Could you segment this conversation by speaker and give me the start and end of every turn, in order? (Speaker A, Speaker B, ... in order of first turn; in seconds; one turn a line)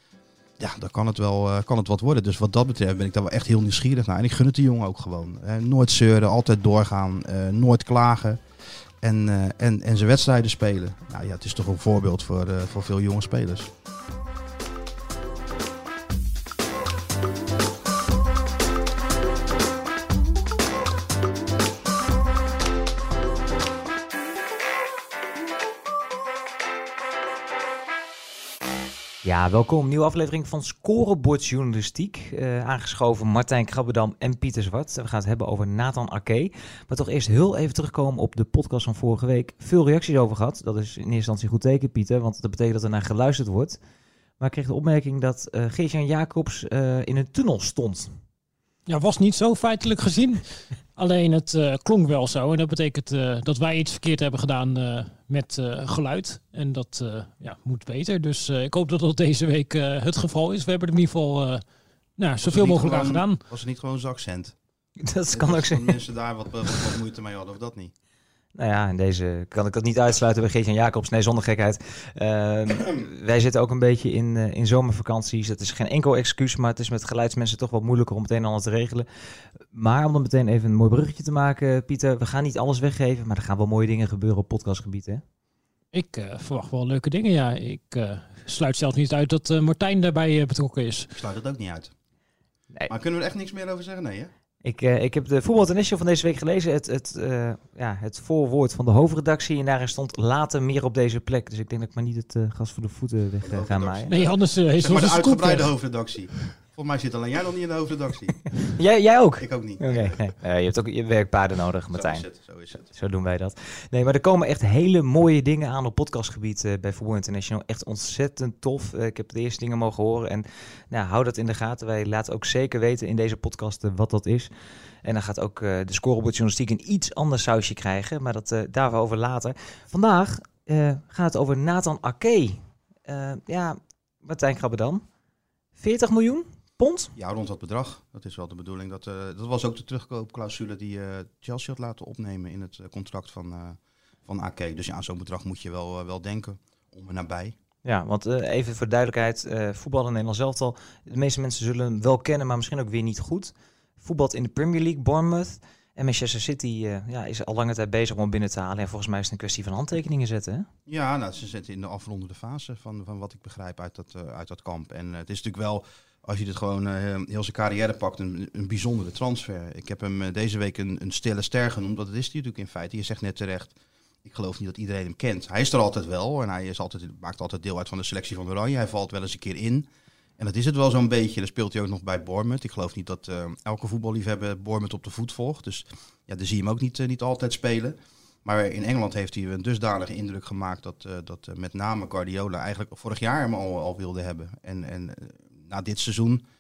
Speaker A: 0.6-8.4
Speaker A: 9.0-13.7
Speaker B: 29.2-43.8
Speaker B: 44.4-48.1
Speaker C: 48.9-50.4
Speaker C: 51.0-61.6
Speaker C: 62.2-63.4
Speaker A: 62.4-64.5
Speaker B: 65.0-65.9
Speaker A: 65.3-67.9
Speaker B: 68.5-79.0
Speaker B: 79.6-85.2
Speaker C: 85.9-91.1
Speaker A: 91.1-91.9
Speaker A: 92.9-94.3
Speaker B: 94.6-104.1
Speaker A: 103.4-108.7
Speaker C: 104.1-105.7
Speaker B: 108.8-112.2
Speaker A: 109.4-110.2
Speaker A: 111.9-112.9
Speaker B: 112.8-124.5
Speaker B: 125.0-135.0
Speaker B: 135.8-137.1
Speaker A: 137.1-147.6
Speaker B: 147.8-160.7
Speaker A: 160.9-179.8
Speaker A: 180.4-196.4